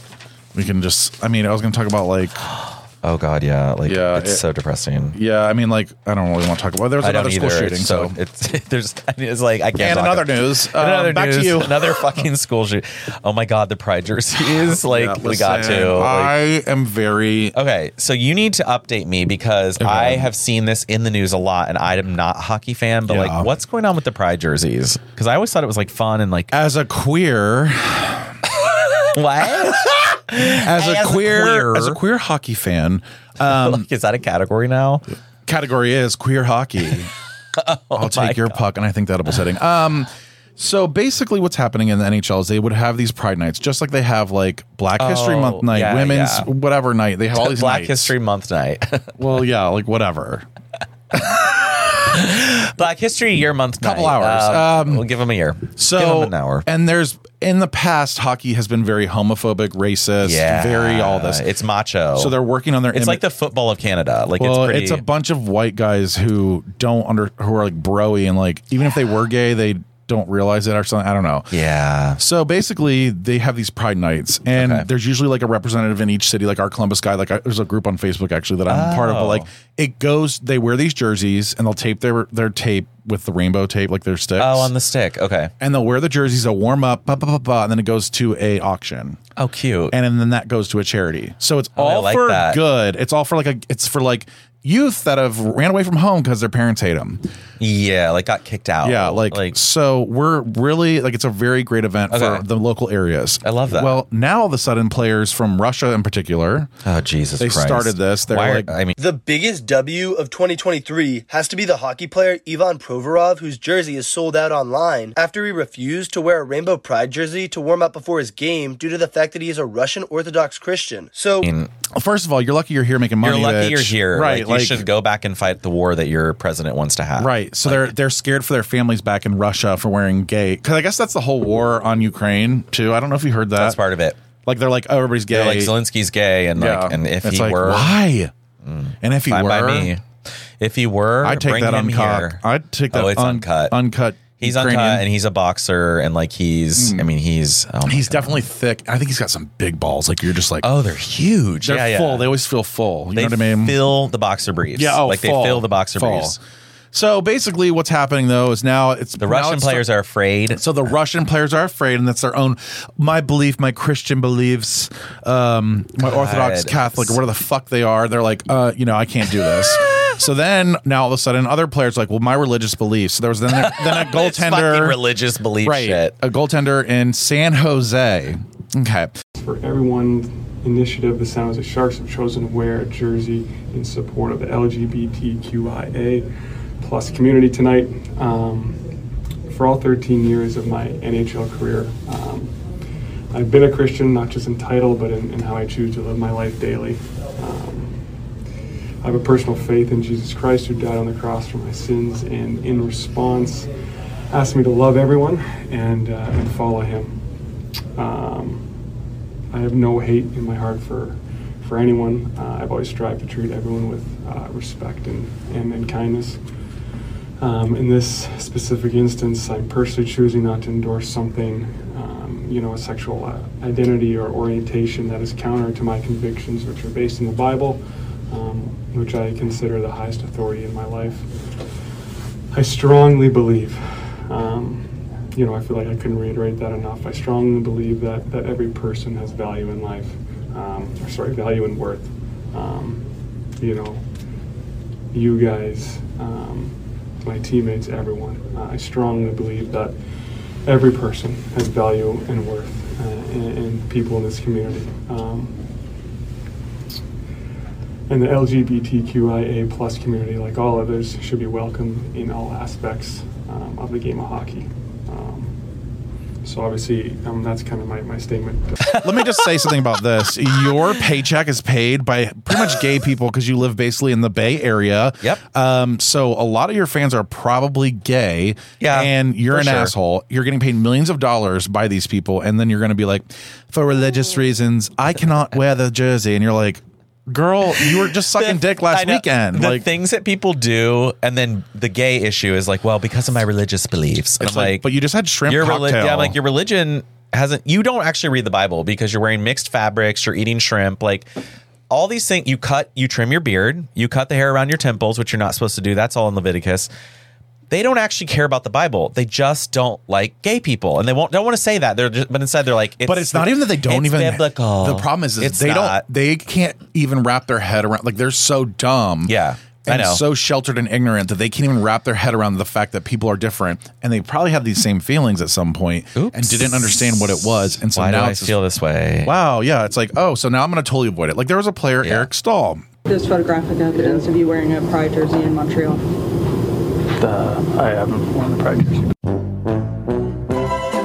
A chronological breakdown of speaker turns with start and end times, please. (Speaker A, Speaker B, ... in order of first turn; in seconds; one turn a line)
Speaker A: 0.5-2.4
Speaker B: 2.6-5.2
Speaker A: 3.9-4.4
Speaker A: 5.1-8.2
Speaker B: 7.0-16.4
Speaker A: 9.8-12.1
Speaker A: 14.7-17.6
Speaker B: 17.5-26.5
Speaker A: 19.8-20.3
Speaker A: 23.1-23.5
Speaker A: 26.5-28.4
Speaker B: 28.5-32.0
Speaker A: 30.4-33.9
Speaker B: 33.4-35.0
Speaker A: 35.5-37.1
Speaker B: 37.5-38.6
Speaker A: 37.9-48.1
Speaker B: 45.0-46.5
Speaker B: 47.3-49.2
Speaker A: 49.2-50.5
Speaker B: 51.1-56.7
Speaker A: 53.8-55.0
Speaker A: 55.8-61.4
Speaker B: 60.2-62.4
Speaker A: 62.1-63.2
Speaker B: 62.9-65.1
Speaker A: 64.4-71.5
Speaker B: 71.5-72.2
Speaker A: 72.2-84.7
Speaker B: 74.5-74.9
Speaker B: 78.7-79.5
Speaker B: 84.4-85.5
Speaker A: 85.6-89.2
Speaker B: 89.4-89.9
Speaker A: 89.9-97.2
Speaker B: 91.8-92.6
Speaker B: 97.6-99.6
Speaker A: 98.8-106.7
Speaker B: 102.1-102.5
Speaker B: 103.4-104.0
Speaker B: 106.8-109.0
Speaker A: 107.4-108.8
Speaker C: 109.0-121.5
Speaker B: 121.4-121.7
Speaker A: 121.9-124.8
Speaker B: 123.2-127.9
Speaker A: 127.2-133.8
Speaker B: 133.6-134.2
Speaker A: 134.4-135.7
Speaker B: 135.3-138.0
Speaker A: 136.6-138.3
Speaker B: 138.6-140.1
Speaker A: 139.0-139.9
Speaker B: 140.6-142.4
Speaker A: 141.2-145.1
Speaker B: 142.9-143.8
Speaker B: 144.4-148.4
Speaker A: 146.8-147.1
Speaker A: 147.8-150.7
Speaker B: 150.6-152.3
Speaker A: 151.6-153.8
Speaker B: 153.1-156.4
Speaker A: 154.8-156.4
Speaker A: 156.9-159.9
Speaker B: 159.2-160.6
Speaker A: 160.6-175.0
Speaker B: 166.0-167.2
Speaker B: 173.5-176.1
Speaker A: 175.6-179.1
Speaker D: 179.4-186.3
Speaker D: 186.8-188.9
Speaker D: 189.5-192.6
Speaker D: 193.3-198.0
Speaker D: 199.0-203.7
Speaker D: 204.3-207.2
Speaker D: 208.0-208.7
Speaker D: 209.5-216.4
Speaker D: 217.4-231.3
Speaker D: 232.5-243.0
Speaker D: 243.6-244.0
Speaker D: 245.1-250.0
Speaker D: 250.7-255.6
Speaker D: 258.1-265.6
Speaker D: 266.4-269.0
Speaker B: 268.9-269.8
Speaker A: 269.0-289.9
Speaker B: 272.5-272.8
Speaker B: 278.8-279.9
Speaker B: 287.8-294.9
Speaker A: 294.4-296.4
Speaker B: 295.5-301.3
Speaker B: 301.9-306.9
Speaker B: 307.7-316.0
Speaker A: 313.1-328.6
Speaker B: 319.2-320.2
Speaker B: 326.1-329.4
Speaker A: 329.2-332.8
Speaker B: 332.0-332.3
Speaker E: 333.1-336.0
Speaker F: 337.2-339.1